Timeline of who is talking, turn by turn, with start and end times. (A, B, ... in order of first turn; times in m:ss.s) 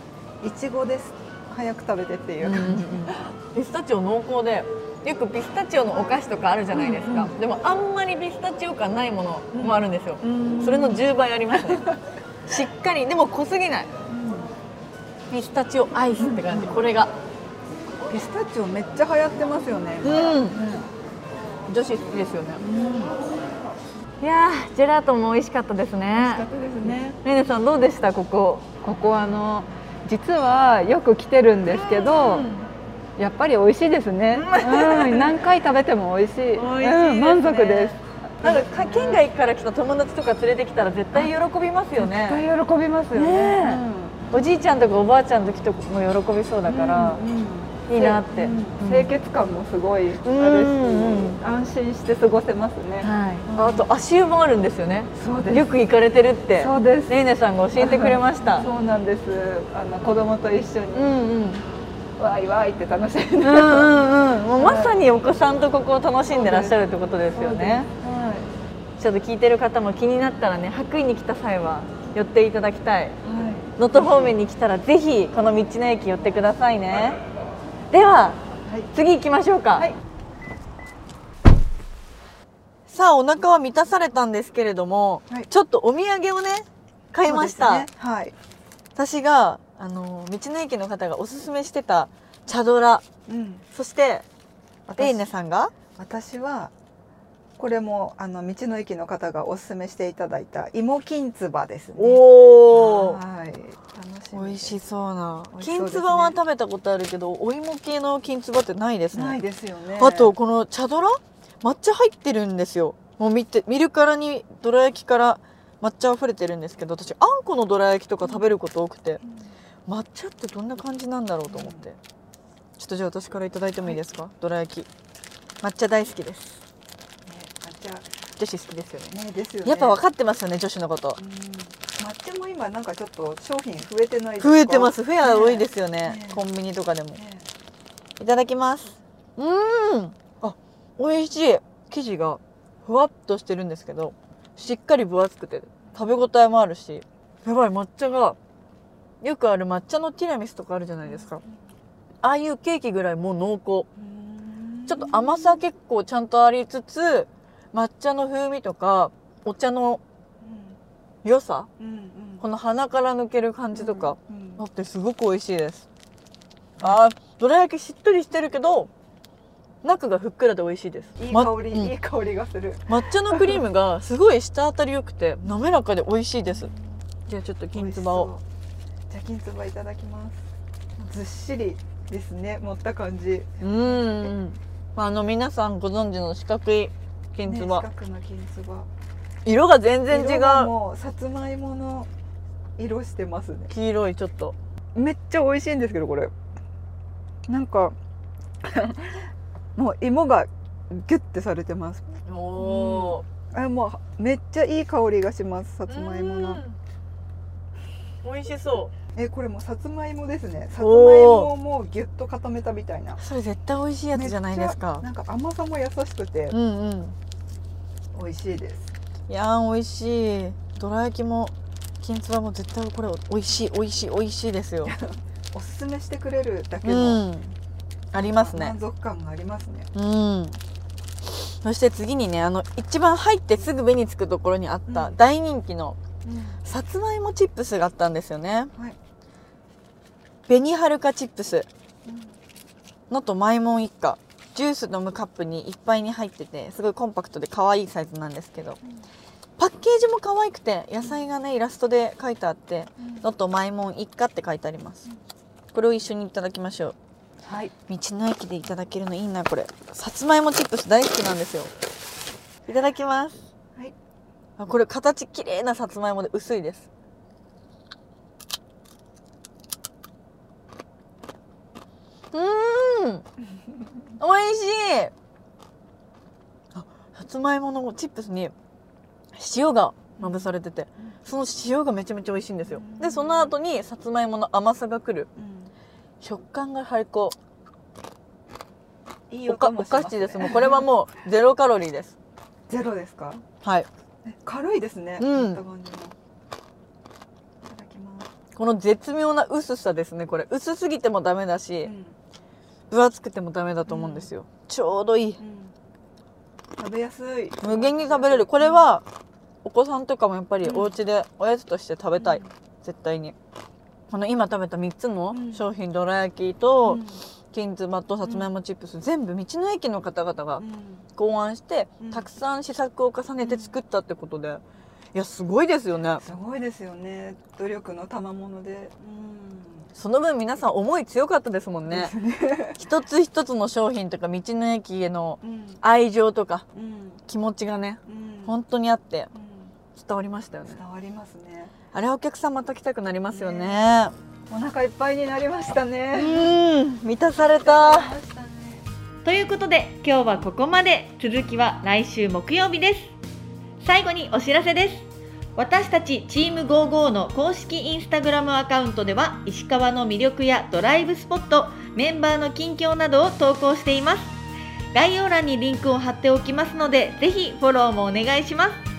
0:00.4-0:03.3 A
0:02.4-0:11.8 B
0:06.7-0:07.3 A
0:09.5-0:11.0 A
0:12.5-0:13.9 B
0:14.1-0:14.5 A
0:15.3-0:17.1 B
0:16.2-0:16.8 A
0:18.0-0:20.9 A
0:20.0-0:20.6 B
0:21.7-0:22.6 B
0:22.6-0:23.2 A
0:24.2-0:26.4 B
0:26.1-0:27.2 A
0:27.2-0:28.6 B
0:28.8-0:32.5 A
0:31.6-0:32.7 B
0:33.2-0:39.2 A
0:34.3-0:35.4 B
0:36.5-0:42.4 B
0:42.0-0:44.2 A
0:43.1-0:47.2 B
0:46.6-0:53.8 A
0:47.9-0:49.1 B
0:50.2-0:51.4 B
0:53.0-0:58.7 B
0:55.1-0:55.7 A
0:56.6-0:57.1 A
0:57.8-1:01.2 A
1:00.9-1:01.6 B
1:02.2-1:03.9 A
1:03.4-1:07.9 B
1:04.6-1:04.9 A
1:06.3-1:08.5 A
1:09.0-1:13.2 B
1:13.2-1:14.3 A
1:13.8-1:17.2 B
1:17.9-1:18.4 B
1:18.6-1:18.9 A
1:18.9-1:19.9 B
1:22.9-1:27.9 B
1:27.2-1:28.3 A
1:29.0-1:33.0 B
1:33.3-1:33.6 A
1:33.7-1:34.2 B
1:34.9-1:35.3 A
1:35.0-1:35.7 B
1:36.0-1:36.7 A
1:37.6-1:44.8 A
1:42.0-1:43.2 B
1:44.3-1:49.4 B
1:45.5-1:46.4 A
1:49.1-1:50.3 A
1:50.0-1:59.2 B
1:59.2-1:59.5 A
1:59.9-2:02.0 B
2:01.5-2:01.8 A
2:02.8-2:04.9 B
2:05.6-2:06.6 B
2:07.2-2:08.1 A
2:08.4-2:11.2 B
2:09.1-2:10.0 A
2:11.2-2:16.4 A
2:14.4-2:17.2 B
2:17.2-2:17.5 A
2:18.2-2:28.4 B
2:29.2-2:31.4 B
2:32.2-2:33.9 B
2:34.0-2:35.6 A
2:34.9-2:40.0 B
2:40.4-2:40.8 A
2:41.2-2:41.7 B
2:41.8-2:42.4 A
2:42.4-2:45.8 B
2:43.7-2:44.6 A
2:46.8-2:48.9 B
2:49.8-2:51.9 B
2:51.2-2:53.4 A
2:52.9-2:56.7 B
2:57.3-2:58.3 B
2:57.7-2:58.4 A
2:59.1-3:00.4 A
3:01.0-3:04.4 A
3:03.6-3:07.8 B
3:07.4-3:08.9 A
3:09.4-3:10.7 B
3:10.1-3:12.1 A
3:12.8-3:13.7 A
3:13.7-3:14.6 B
3:14.9-3:16.3 A
3:17.5-3:18.0 A
3:18.6-3:26.6 A
3:22.2-3:23.2 B
3:25.9-3:26.8 B
3:28.2-3:28.9 B
3:29.1-3:33.2 A
3:30.8-3:31.5 B
3:33.2-3:35.0 B
3:34.1-3:36.6 A
3:36.5-3:37.2 B
3:38.1-3:38.9 A
3:39.3-3:44.9 B
3:44.8-3:47.2 A
3:46.8-3:47.5 B
3:48.1-3:49.9 A
3:48.1-3:48.8 B
3:49.9-3:50.6 B
3:51.4-3:56.0 B
3:54.9-3:55.2 A
3:56.2-3:56.6 A
3:56.6-3:58.7 B
4:00.5-4:01.7 B
4:02.0-4:02.4 A
4:03.1-4:08.8 B
4:09.6-4:15.0 B
4:13.0-4:13.2 A
4:15.7-4:16.9 B
4:17.4-4:17.7 A
4:17.9-4:21.7 B
4:22.7-4:23.4 B
4:24.6-4:26.9 B
4:32.3-4:33.2 B
4:34.2-4:35.1 B
4:36.7-4:38.5 B
4:39.3-4:45.3 B
4:40.2-4:40.5 A
4:42.7-4:43.5 A
4:45.4-4:45.7 A
4:46.2-4:47.4 B
4:49.3-4:50.8 A
4:49.4-4:52.1 B
4:52.7-4:53.4 A
4:53.6-4:53.9 B
4:54.2-4:56.1 A
4:55.2-4:55.6 B
4:57.6-4:58.3 A
4:58.6-5:01.9 B
5:01.8-5:02.2 A
5:02.9-5:05.4 B
5:03.8-5:04.3 A
5:05.4-5:05.7 A
5:06.8-5:08.9 A
5:07.6-5:09.0 B
5:09.6-5:13.3 B
5:10.6-5:10.9 A
5:12.2-5:12.5 A
5:14.1-5:20.6 B
5:15.3-5:15.6 A
5:16.8-5:17.2 A
5:18.2-5:18.5 A
5:20.6-5:21.1 A
5:21.2-5:24.6 B
5:22.0-5:22.3 A
5:23.4-5:23.7 A
5:25.1-5:26.2 B
5:26.2-5:29.9 A
5:30.0-5:32.1 B
5:31.9-5:32.8 A
5:32.8-5:36.6 B
5:35.4-5:35.8 A
5:36.7-5:37.2 A
5:37.3-5:39.3 B
5:38.0-5:38.6 A
5:39.3-5:39.7 A
5:39.9-5:40.8 B
5:40.7-5:41.7 A
5:41.9-5:44.1 B
5:43.3-5:43.8 A
5:44.5-5:46.5 A
5:46.1-5:48.1 B
5:47.6-5:48.8 A
5:49.2-5:53.0 C
5:53.8-5:55.0 C
5:55.6-6:04.2 C
6:01.4-6:02.1 B
6:04.9-6:08.7 C